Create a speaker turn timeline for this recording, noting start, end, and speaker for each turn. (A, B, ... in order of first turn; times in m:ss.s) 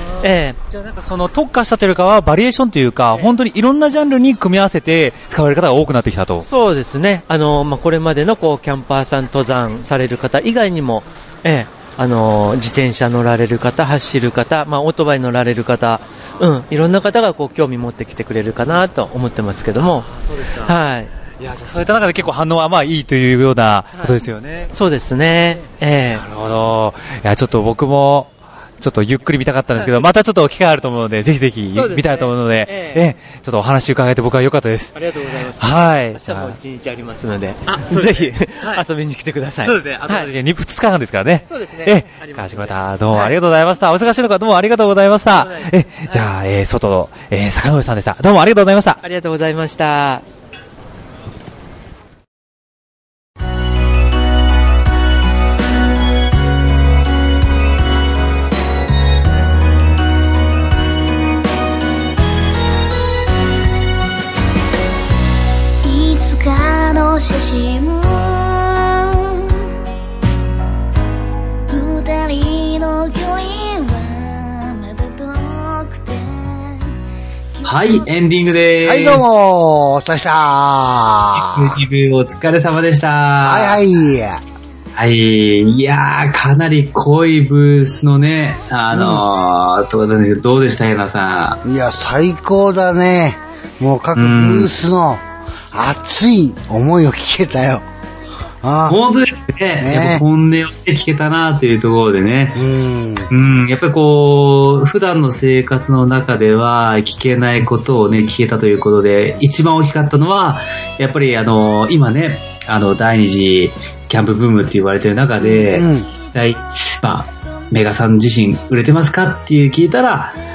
0:00.2-0:00.6 A
0:00.7-0:06.4 B
0:06.4-0:20.1 A
0:19.9-0:20.7 B
0:20.6-0:21.1 A
0:21.4-0:24.7 B
0:24.7-0:26.2 A
0:26.1-0:36.6 B
0:31.7-0:33.0 A
0:34.9-0:40.3 A
0:37.7-0:38.8 B
0:39.6-0:49.0 B
0:41.5-0:43.3 A
0:45.3-0:46.3 A
0:49.0-0:50.2 A
1:05.8-1:09.1 C
1:11.7-1:16.8 C
1:17.6-1:18.1 C
1:17.7-1:19.2 D
1:18.8-1:21.8 E
1:21.3-1:23.8 D
1:23.4-1:24.4 E
1:25.0-1:31.6 D
1:28.9-1:29.2 E
1:31.6-1:37.8 E
1:34.1-1:34.7 D
1:38.6-1:39.0 E
1:38.9-1:42.6 D
1:39.8-1:40.2 E
1:42.5-1:43.3 E
1:43.3-2:00.4 D
1:55.5-1:56.1 E